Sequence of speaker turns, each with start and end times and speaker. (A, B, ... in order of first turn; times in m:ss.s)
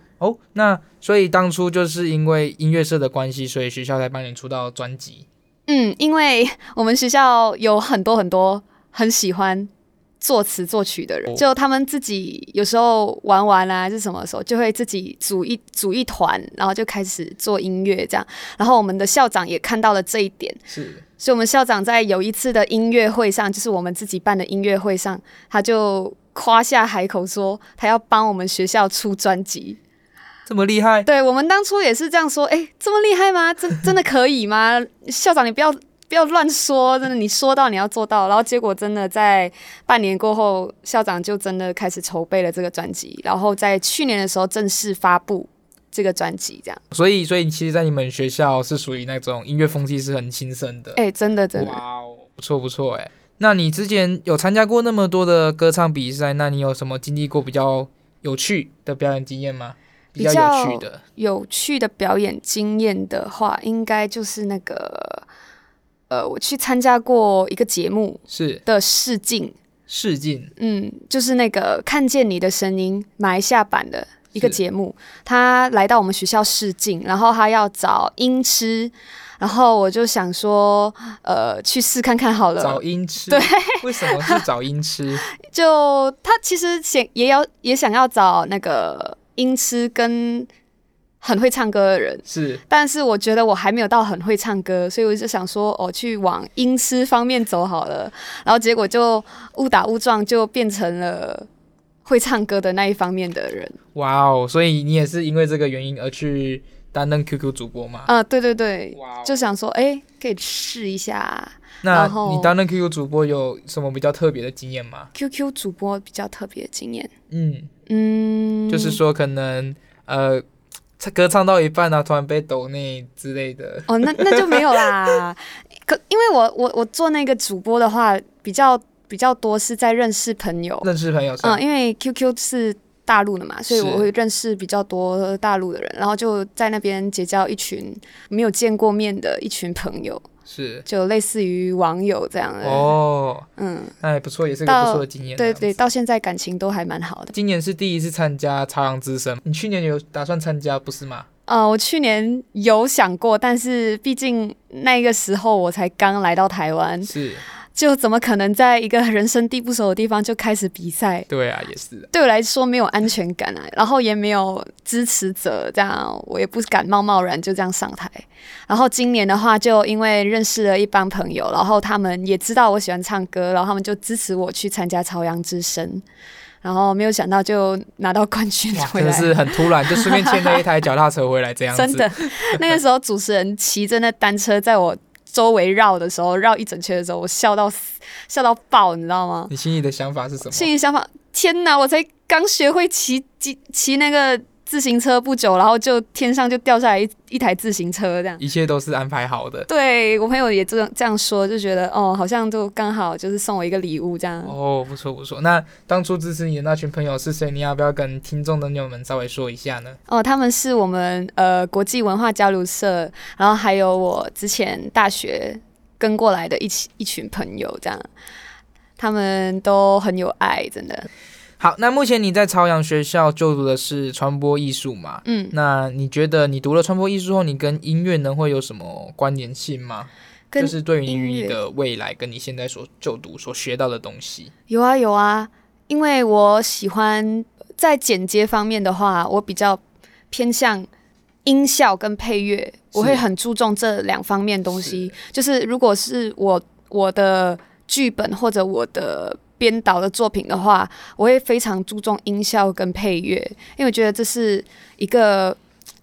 0:00.2-0:05.3 A
0:05.7-0:09.7 B
0:10.2-0:20.6 B
0:20.7-0:21.0 A
0:21.2-0:29.8 B
0:30.4-0:31.1 A
0:31.0-0:46.8 B
0:46.9-0:51.0 A
0:51.0-0:51.8 B
0:51.5-1:01.0 A
1:00.2-1:05.2 B
1:06.1-1:09.6 B
1:08.3-1:08.6 A
1:09.9-1:10.5 A
1:10.6-1:24.4 B
1:22.6-1:25.2 A
1:25.4-1:30.5 B
1:31.2-1:41.5 B
1:32.2-1:32.6 A
1:42.1-1:43.8 B
1:43.9-1:48.1 A
1:48.0-1:52.5 B
1:49.0-1:49.3 A
1:51.8-1:55.1 A
1:55.1-1:57.1 B
1:57.3-1:57.7 A
1:57.9-1:59.0 B
1:58.7-2:00.4 A
2:01.0-2:04.9 A
2:03.9-2:10.9 B
2:10.8-2:11.6 A
2:11.4-2:20.2 B
2:13.7-2:14.1 A
2:20.5-2:20.8 A
2:20.8-2:22.9 B
2:22.6-2:23.5 A
2:23.6-2:23.9 B
2:24.0-2:25.8 A
2:24.6-2:27.3 B
2:27.3-2:31.3 A
2:31.5-2:37.1 B
2:37.1-2:37.4 A
2:37.7-2:41.3 B
2:41.3-2:42.1 A
2:42.1-2:56.0 B
2:56.6-3:00.6 B
2:58.7-3:02.6 A
3:01.7-3:09.5 B
3:09.5-3:10.7 A
3:10.4-3:18.4 B
3:18.4-3:19.7 A
3:19.7-3:24.5 B
3:24.4-3:30.0 A
3:30.1-3:38.1 B
3:39.0-3:41.1 B
3:41.6-3:54.5 A
3:45.2-3:45.5 B
3:50.5-3:51.6 B
3:54.7-4:00.9 B
4:01.4-4:15.6 B
4:02.9-4:03.2 A
4:04.8-4:05.1 A